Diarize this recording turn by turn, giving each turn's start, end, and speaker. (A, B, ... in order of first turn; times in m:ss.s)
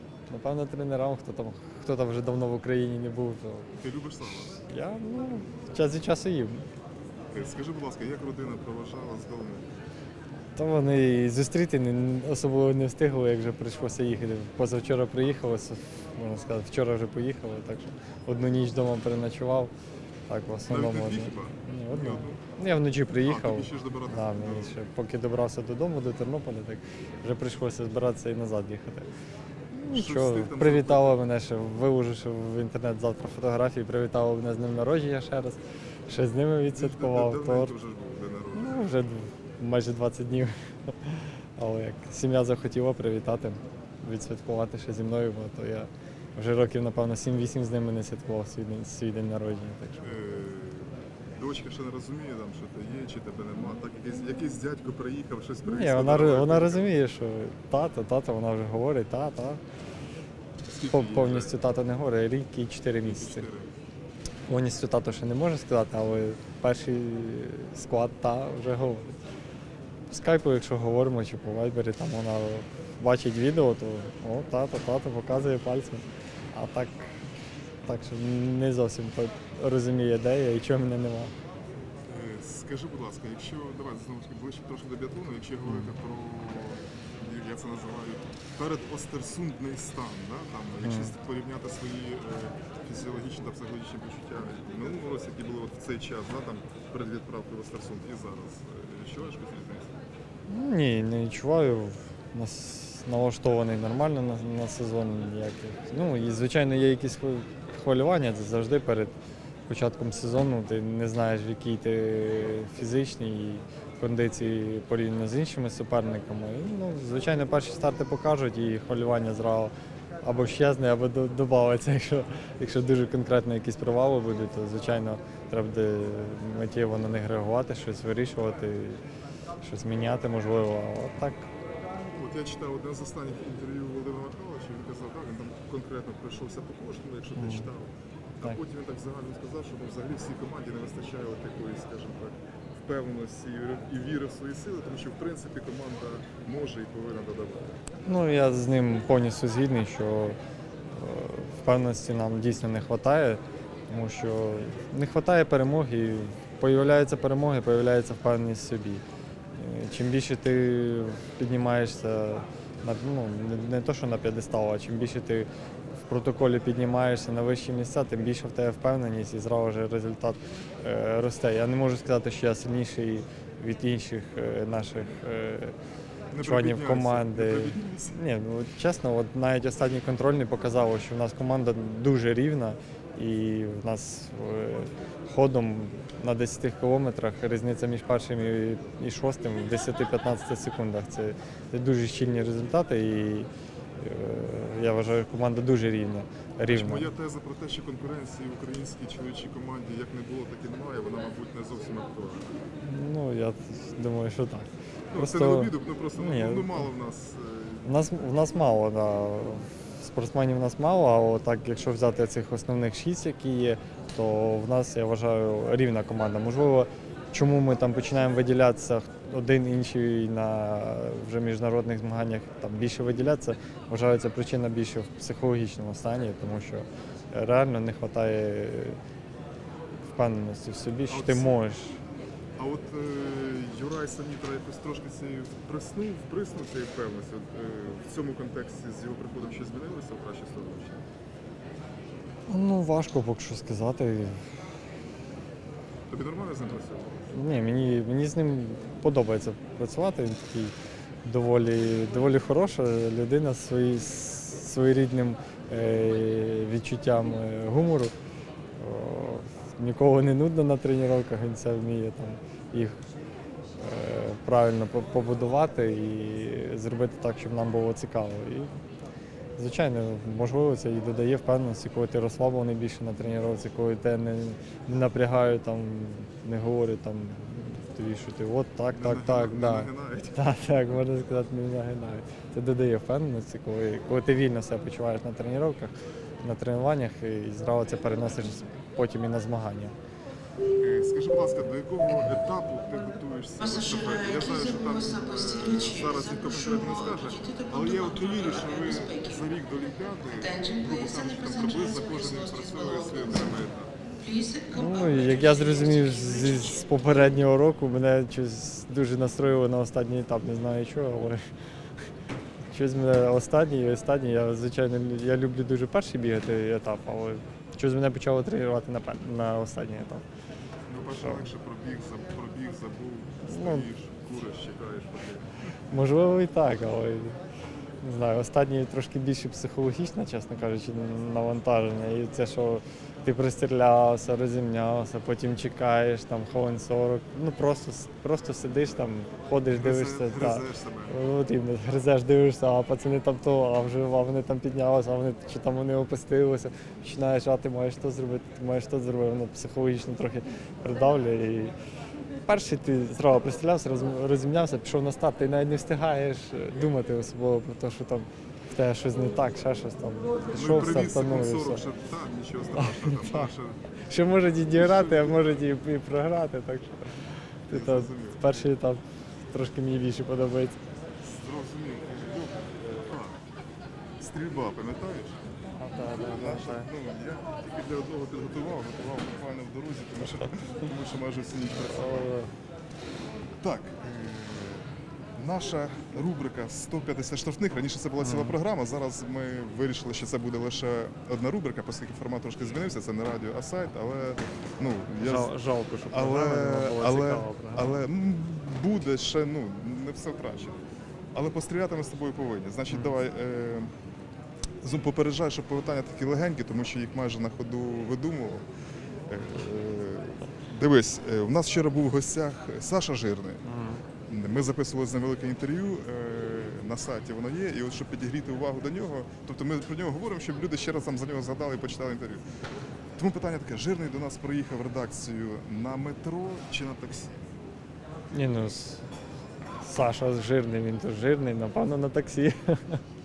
0:00.3-0:03.7 A
0:03.8-0:04.6 B
0:04.7-0:06.7 A
0:07.3-0:09.7 B
0:10.6-0:19.7 A
0:20.3-0:29.1 A
0:20.7-0:22.4 B
0:23.2-0:24.7 B
0:29.7-0:37.7 A
0:29.9-0:31.2 B
0:36.7-0:38.8 B
0:38.5-0:50.2 A
0:50.0-0:56.9 B
0:55.6-0:59.6 A
1:00.6-1:01.6 B
1:00.9-1:03.5 A
1:03.0-1:03.7 B
1:04.5-1:09.2 A
1:10.1-1:17.1 A
1:17.8-1:21.3 A
1:22.0-1:40.0 B
1:25.6-1:25.9 A
1:30.8-1:31.1 A
1:40.5-1:49.1 A
1:49.7-2:09.0 A
2:09.6-2:11.5 A
2:12.1-2:27.8 B
2:17.3-2:17.7 A
2:28.0-2:30.4 A
2:30.9-2:39.0 A
2:39.6-2:55.8 A
2:56.3-2:58.2 B
2:56.4-3:17.1 A
3:16.7-3:22.6 B
3:22.8-3:26.9 A
3:25.1-3:28.0 B
3:27.8-3:49.0 A
3:50.0-3:52.0 A
3:51.1-3:51.6 B
3:52.6-4:01.0 B
4:02.5-4:04.4 A
4:06.1-4:07.4 B
4:07.3-4:18.1 A
4:18.8-4:23.0 A
4:23.8-4:28.7 A
4:29.6-4:49.9 A
4:38.9-4:40.6 B
4:50.8-5:03.9 B
5:04.7-5:11.4 A
5:12.7-5:20.2 A
5:20.9-5:25.9 B
5:23.5-5:23.8 A
5:25.9-5:27.4 A
5:28.0-5:51.7 A
5:39.7-5:41.2 B
5:52.4-6:01.8 A
6:00.5-6:03.9 B
6:02.8-6:03.5 A
6:04.1-6:10.8 A
6:04.7-6:05.6 B
6:07.7-6:08.7 B
6:11.2-6:13.4 B
6:14.2-6:15.4 B
6:15.6-6:16.9 A
6:16.1-6:22.3 B
6:21.8-6:22.5 A
6:23.6-6:35.5 B
6:28.2-6:28.6 A
6:35.2-6:38.0 A
6:36.1-6:40.8 B
6:41.3-6:43.9 B
6:44.8-6:48.6 B
6:49.3-6:53.6 B
6:53.6-6:54.0 A
6:54.3-7:02.4 B
7:03.2-7:07.5 B
7:08.3-7:09.0 A
7:09.8-7:13.0 A